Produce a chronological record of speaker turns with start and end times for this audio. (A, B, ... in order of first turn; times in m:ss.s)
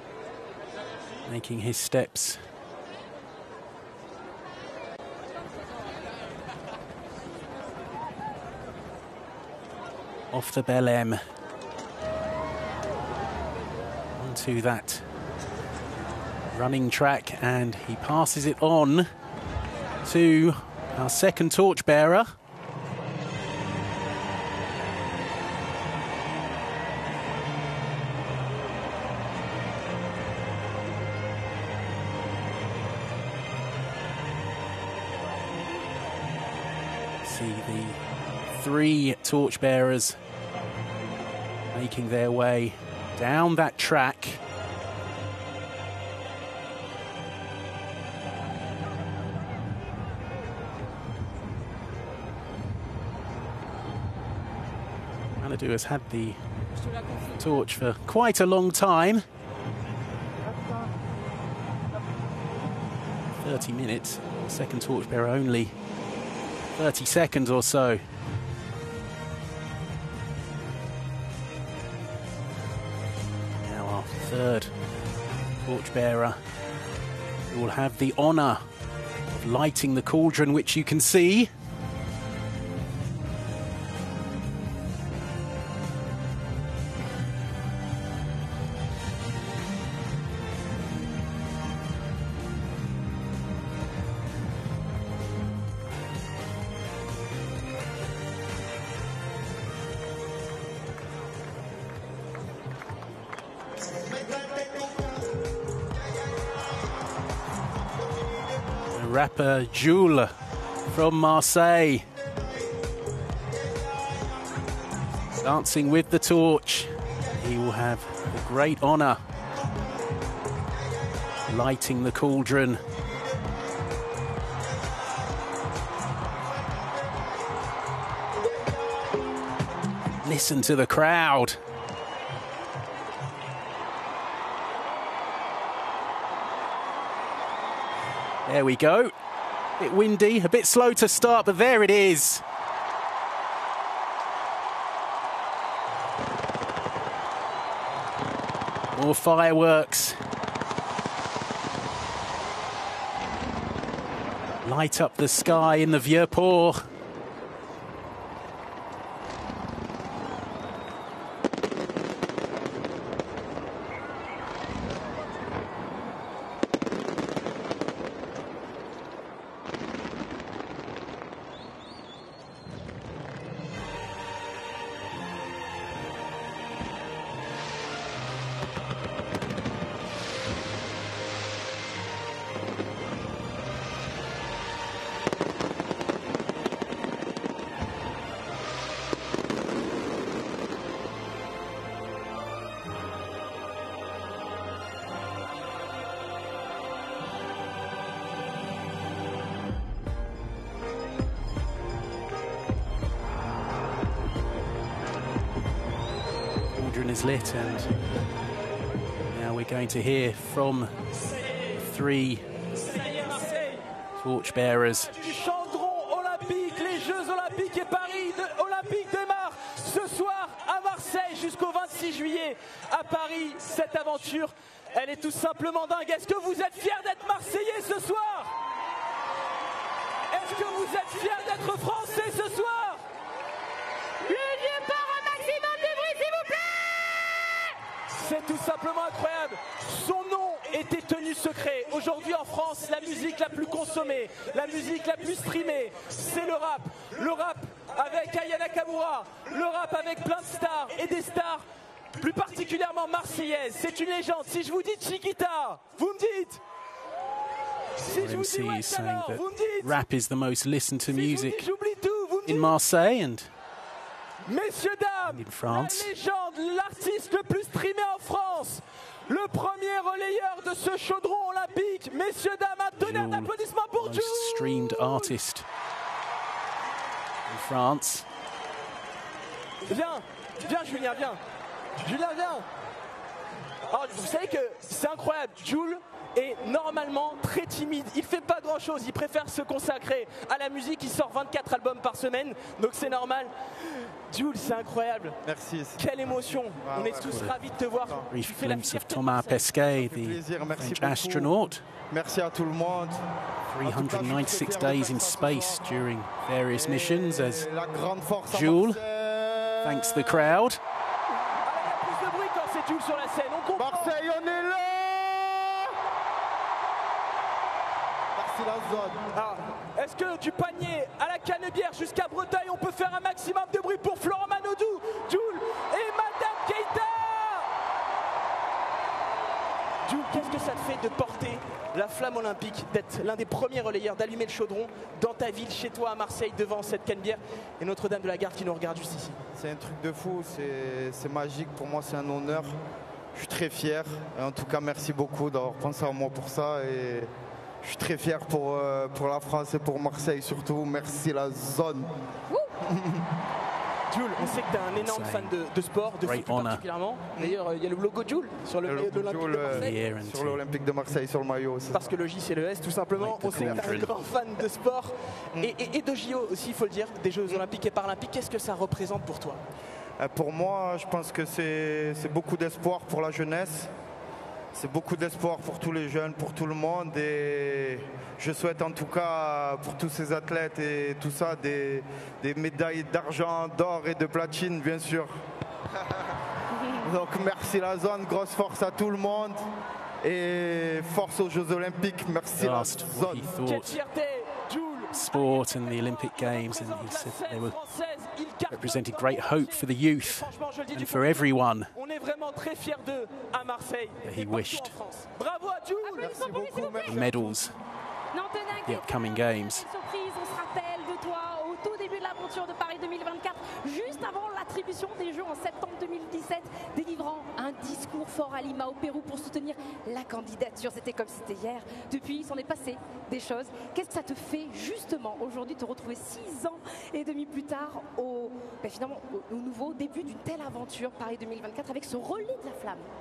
0:01.2-0:02.4 A
0:10.3-0:11.2 A
0:14.2-0:15.0 A
0:16.5-0:19.1 A
0:20.0-0:22.3 A
0:37.2-0:38.0 A
0:38.5-0:40.2 A
0:41.7-0:44.4 A
0:55.4-0:56.4 A
0:57.4-0:59.2 A
1:03.4-1:05.7 A
1:06.8-1:08.0 A
1:13.5-1:14.7 A
1:15.6-1:16.4 A
1:17.5-1:18.6 A
1:19.3-1:21.5 A
1:44.0-1:45.2 B
1:48.9-1:50.3 A
1:50.9-1:52.1 A
1:55.4-1:59.2 A
2:01.5-2:02.8 A
2:10.2-2:11.6 A
2:18.4-2:19.1 A
2:19.8-2:22.4 A
2:28.9-2:30.2 A
2:34.6-2:36.8 A
3:26.8-3:27.9 A
3:29.3-3:30.9 A
3:31.7-3:32.5 A
3:32.9-3:33.8 C
3:34.2-3:35.2 A
3:35.2-3:48.5 C
3:50.3-3:53.0 C
3:54.3-3:56.7 D
3:58.1-4:16.6 C
4:18.0-4:20.0 C
4:18.1-4:21.6 A
4:21.1-4:22.7 C
4:22.4-4:23.5 A
4:24.4-4:35.3 C
4:25.3-4:26.1 A
4:33.0-4:35.6 A
4:37.5-4:38.3 A
4:39.8-4:41.4 C
4:42.0-4:42.6 C
4:43.9-4:53.5 C
4:54.3-4:55.4 C
4:55.4-4:56.0 B
4:56.0-4:59.7 C
4:56.8-4:58.2 B
4:57.2-4:57.6 A
4:58.3-5:01.8 A
4:59.9-5:01.5 B
5:02.1-5:03.2 B
5:03.7-5:07.7 A
5:03.8-5:05.9 B
5:06.7-5:10.4 B
5:08.5-5:09.0 A
5:09.8-5:10.8 A
5:11.6-5:14.3 C
5:13.8-5:16.0 B
5:18.4-5:19.2 B
5:19.3-5:27.7 C
5:30.0-5:39.4 C
5:39.6-5:42.8 B
5:43.3-5:47.3 B
5:47.8-5:52.1 B
5:52.8-5:53.2 B
5:54.1-6:00.0 C
5:54.9-5:55.5 A
5:56.2-5:56.8 A
5:58.8-6:02.1 B
5:59.7-6:00.6 A
6:01.9-6:09.6 C
6:03.1-6:04.1 A
6:03.5-6:04.0 B
6:10.2-6:13.9 B
6:14.7-6:25.3 B
6:27.0-6:29.7 B
6:30.2-6:33.5 B
6:32.6-6:34.0 A
6:33.6-6:46.6 C
6:35.1-6:37.8 A
6:38.7-6:41.9 A
6:44.2-6:45.0 A
6:46.0-6:47.2 D
6:46.2-6:47.6 B
6:47.0-6:47.7 A
6:48.3-7:13.1 D
6:48.8-6:49.8 A